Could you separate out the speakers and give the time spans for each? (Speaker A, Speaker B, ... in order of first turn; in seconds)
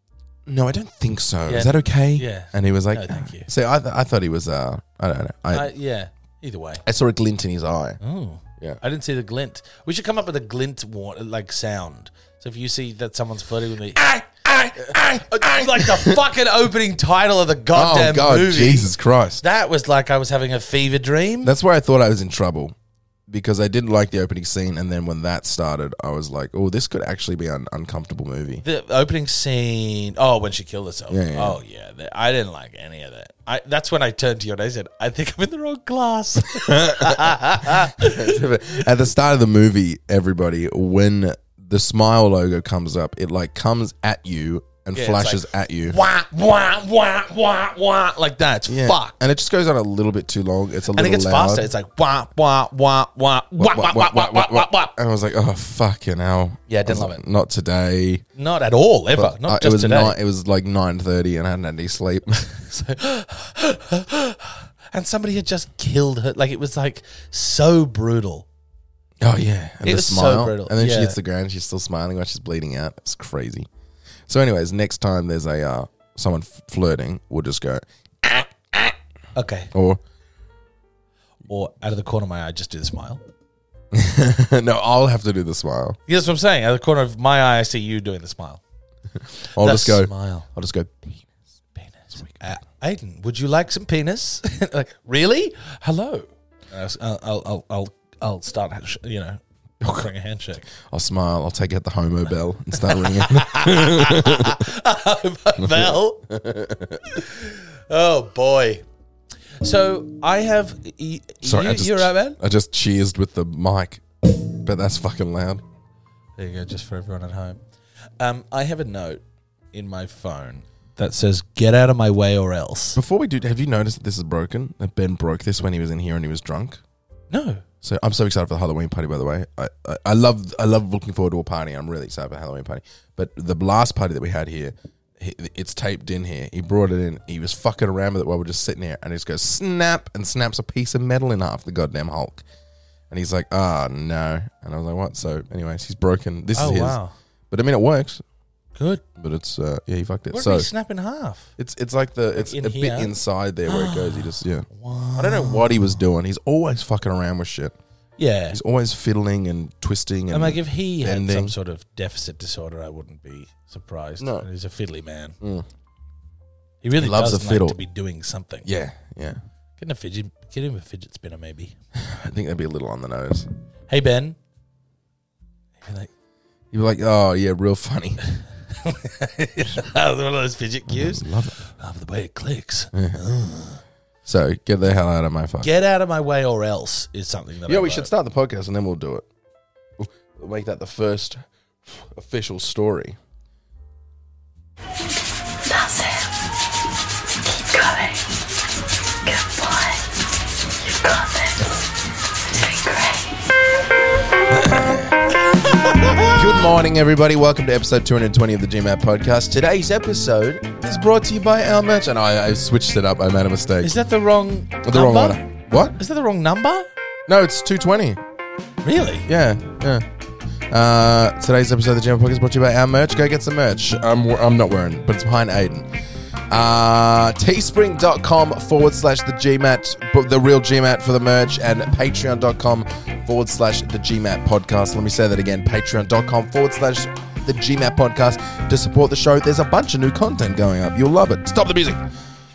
Speaker A: 0.5-5.7, 6.8-8.0, 13.9-16.2, 17.7-19.4, 21.4-22.7, 23.3-28.6, 31.1-31.6, 36.5-46.0, 48.7-51.7, 53.6-58.2, 59.1-62.5, 69.2-73.7, 74.3-78.9, 79.7-80.0, 83.9-86.0, 89.2-91.3, 100.7-104.7, 105.6-107.2, 111.4-115.6, 123.0-126.8, 127.8-142.4, 143.1-147.0, 147.5-148.2, 149.2-150.7, 151.6-154.7, 155.2-157.7, 158.5-161.5, 164.2-164.4, 165.4-165.7, 166.9-167.8, 168.6-169.4, 171.9-173.5, 176.7-178.2, 180.9-181.6, 182.9-183.2, 184.2-185.7, 187.7-189.3, 190.0-193.2, 204.5-205.1, 206.2-214.0, 214.8-216.0, 217.3-218.2, 219.2-220.1, 220.7-225.9, 226.5-242.0
Speaker B: 1.5-3.5, 5.5-6.8, 8.0-14.1, 14.7-21.5, 28.6-38.4, 44.9-49.1, 50.9-54.9, 56.7-57.2, 58.4-60.1, 62.5-68.5, 69.8-71.2, 79.3-79.7, 81.5-83.2, 86.1-88.6, 89.5-90.5, 91.8-100.7, 102.8-106.2, 107.0-108.8, 109.6-112.4, 116.4-117.6, 118.2-119.2, 119.7-123.0, 127.3-127.6, 146.5-147.1, 148.7-149.0, 150.3-151.5, 152.3-153.1, 153.7-155.9, 158.2-158.6, 160.3-165.3, 166.8-168.7, 169.8-171.8, 173.9-174.4, 175.8-176.1, 178.7-183.8, 185.6-188.1, 206.0-206.3, 213.8-216.9, 218.8-219.3
Speaker C: 195.6-196.4, 197.4-198.3, 199.2-200.1, 200.8-201.9, 202.5-203.4